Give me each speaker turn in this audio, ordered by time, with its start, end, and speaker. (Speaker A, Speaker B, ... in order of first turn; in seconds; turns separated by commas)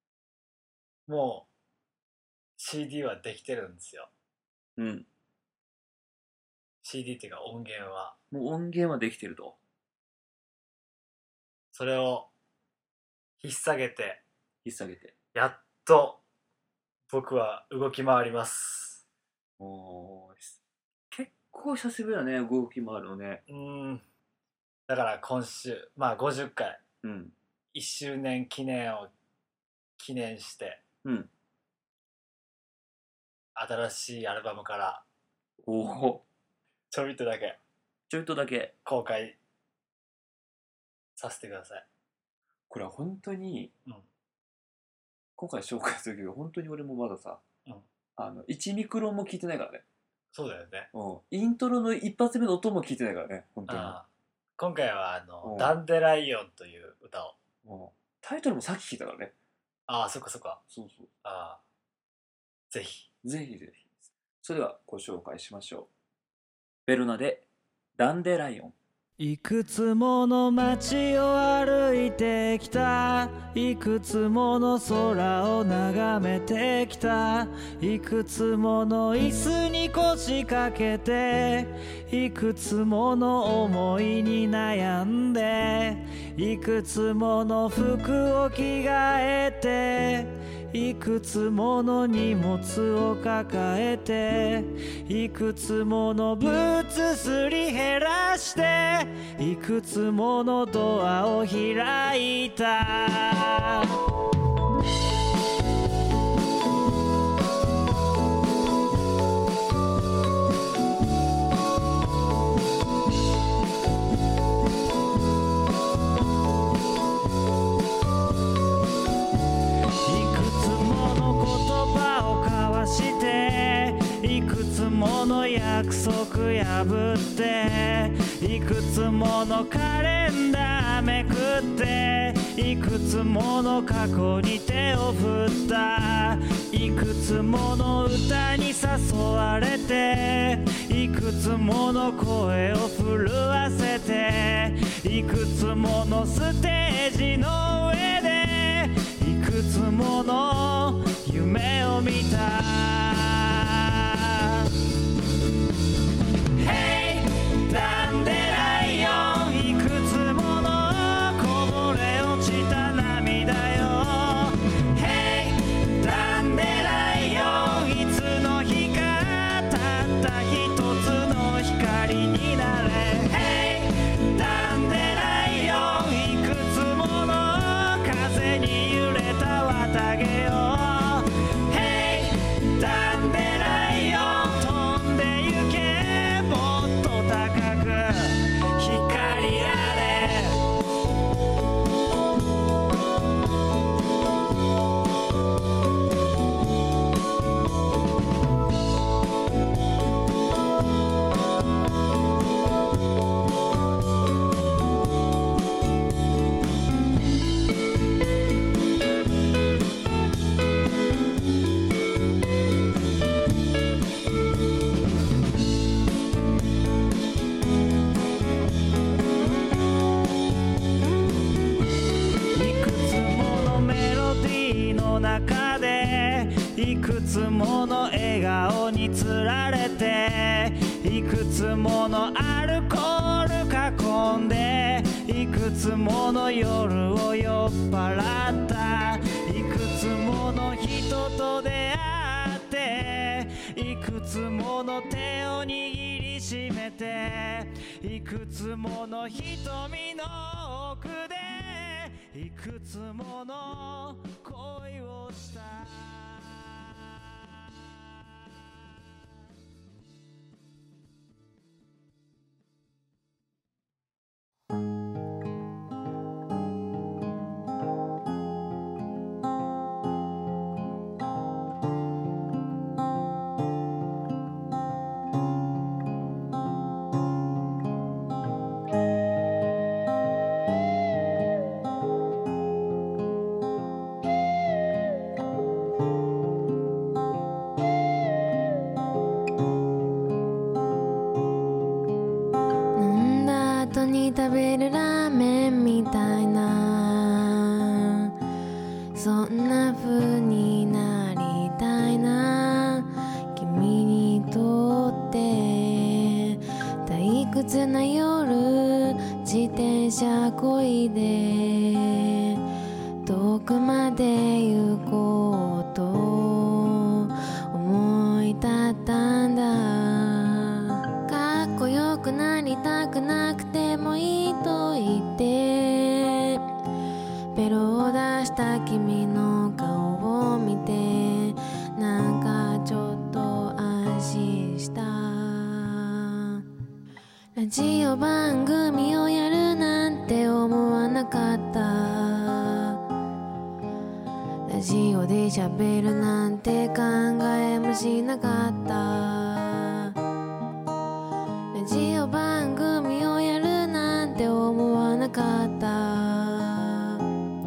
Speaker A: 1.1-1.5, Speaker A: 2.6-4.1, Speaker B: 4.8-5.1, Speaker A: 6.8-8.2, Speaker B: 8.3-9.6, Speaker A: 11.7-12.3, Speaker A: 13.4-14.2, Speaker B: 14.6-15.1, Speaker A: 15.3-16.2, Speaker A: 17.1-19.0, Speaker B: 19.6-20.6, Speaker B: 21.1-23.4, Speaker A: 23.5-24.0, Speaker A: 24.9-26.8, Speaker B: 27.0-27.3, Speaker A: 27.7-29.1, Speaker A: 30.0-30.8, Speaker B: 31.0-31.3, Speaker A: 33.5-35.0, Speaker B: 35.6-36.2, Speaker A: 36.9-37.6, Speaker B: 38.1-38.7, Speaker A: 38.9-39.4, Speaker A: 41.1-41.8, Speaker B: 42.7-43.7, Speaker B: 45.4-47.4, Speaker B: 48.2-49.8, Speaker A: 50.3-50.9, Speaker B: 50.9-54.0, Speaker A: 53.7-54.1, Speaker A: 54.6-57.4, Speaker B: 55.4-55.8, Speaker B: 57.6-59.3, Speaker A: 59.9-60.6, Speaker B: 60.7-61.1, Speaker A: 61.2-61.6, Speaker A: 62.7-63.1, Speaker B: 63.2-65.9, Speaker B: 66.9-67.4, Speaker B: 68.0-68.8, Speaker C: 69.2-104.0, Speaker C: 120.0-154.7, Speaker C: 156.6-190.6, Speaker C: 222.5-256.3, Speaker D: 292.9-298.3, Speaker D: 299.1-312.6, Speaker D: 313.2-326.6, Speaker D: 327.5-336.6, Speaker D: 337.6-343.0, Speaker D: 344.7-350.1, Speaker D: 351.7-357.2